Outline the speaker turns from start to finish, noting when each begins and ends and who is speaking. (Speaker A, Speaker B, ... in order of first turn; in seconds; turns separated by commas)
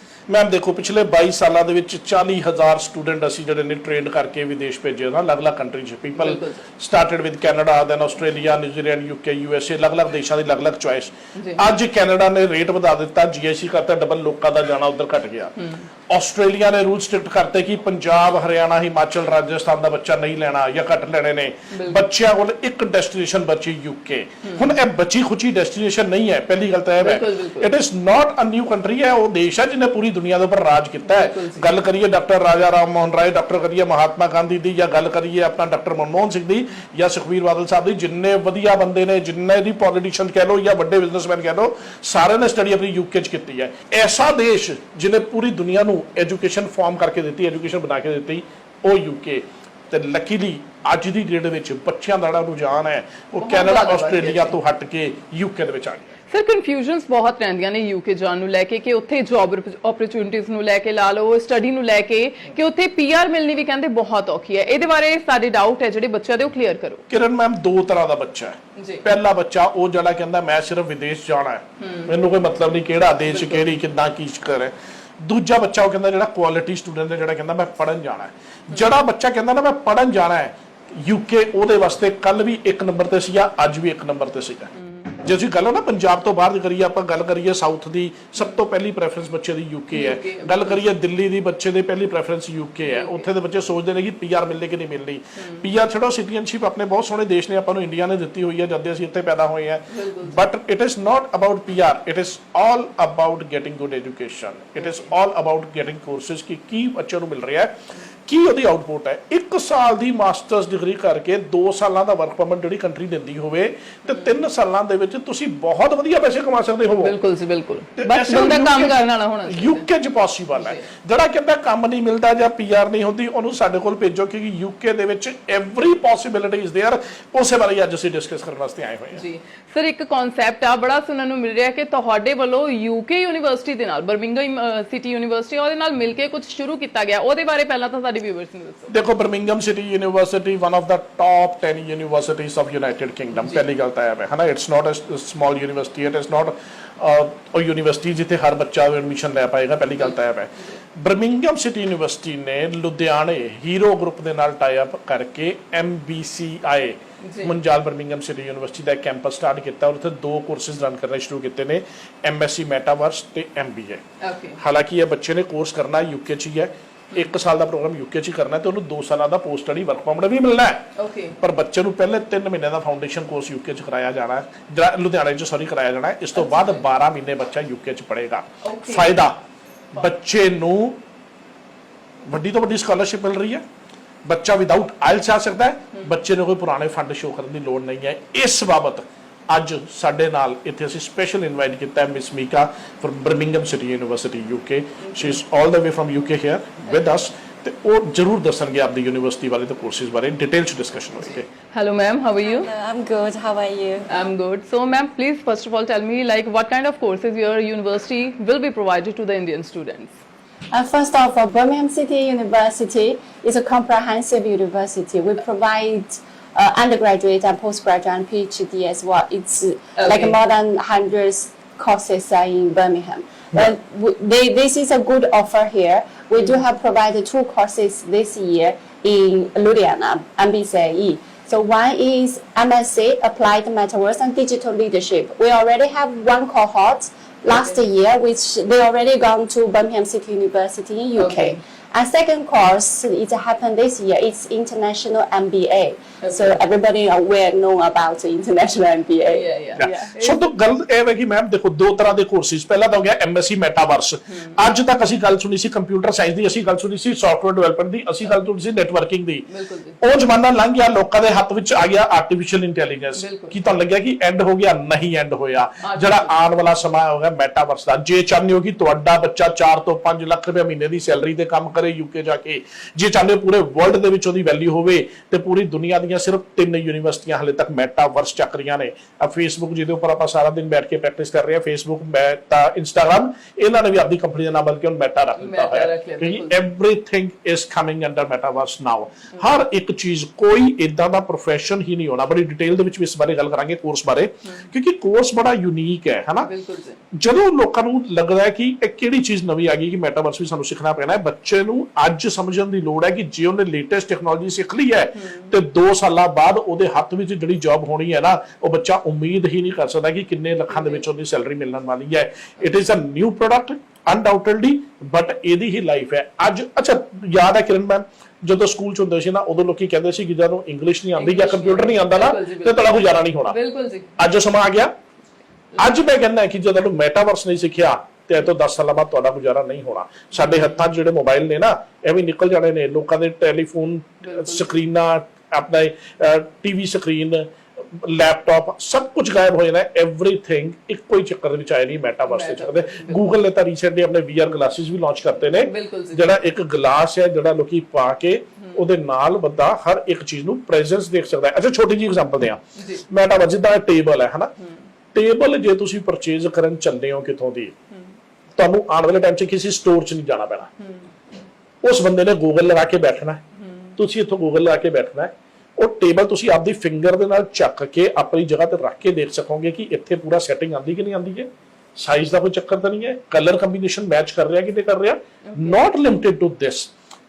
Speaker A: 0.3-15.6, Speaker B: 6.2-6.6, Speaker B: 11.3-11.7, Speaker B: 15.6-15.8, Speaker A: 16.1-56.2, Speaker B: 21.7-22.1, Speaker B: 24.4-24.8, Speaker B: 27.0-27.7, Speaker B: 31.0-31.7, Speaker B: 53.4-54.6, Speaker B: 56.3-67.0, Speaker A: 67.1-107.7, Speaker B: 68.8-69.0, Speaker B: 71.8-72.2, Speaker B: 73.3-73.7, Speaker B: 89.9-90.8, Speaker B: 92.9-93.3, Speaker B: 95.4-95.7, Speaker B: 99.9-100.4, Speaker B: 104.8-105.1, Speaker A: 108.3-117.2, Speaker B: 117.0-119.9, Speaker A: 118.0-129.2, Speaker B: 120.5-120.8, Speaker B: 129.2-138.9, Speaker A: 138.9-164.0, Speaker B: 157.2-157.5, Speaker B: 164.2-164.6, Speaker A: 164.6-170.9, Speaker B: 171.0-171.4, Speaker A: 171.4-179.3, Speaker B: 176.3-176.8, Speaker B: 178.6-179.2, Speaker A: 179.9-181.0, Speaker A: 182.3-183.6, Speaker A: 184.2-201.5, Speaker B: 195.0-195.4, Speaker B: 201.6-202.7, Speaker C: 202.4-204.1, Speaker B: 204.1-210.1, Speaker C: 210.7-250.1, Speaker B: 220.0-220.3, Speaker B: 241.2-241.6, Speaker B: 246.2-246.6, Speaker B: 249.3-250.5, Speaker A: 249.8-259.4, Speaker B: 259.5-260.0, Speaker A: 260.0-296.5, Speaker B: 263.2-263.6, Speaker B: 265.8-266.4, Speaker B: 285.4-286.6, Speaker B: 296.4-297.0, Speaker A: 297.1-323.6, Speaker B: 305.2-305.6, Speaker B: 310.7-311.0, Speaker B: 321.2-324.2, Speaker A: 324.2-324.9, Speaker A: 325.8-354.5, Speaker B: 330.4-330.9, Speaker B: 334.2-334.7, Speaker B: 342.3-343.3, Speaker B: 345.4-346.4, Speaker B: 352.8-353.1, Speaker A: 355.1-357.8, Speaker A: 358.6-360.7, Speaker B: 360.8-361.1, Speaker A: 361.8-363.4, Speaker B: 363.6-363.9, Speaker A: 364.0-376.9, Speaker B: 375.4-375.8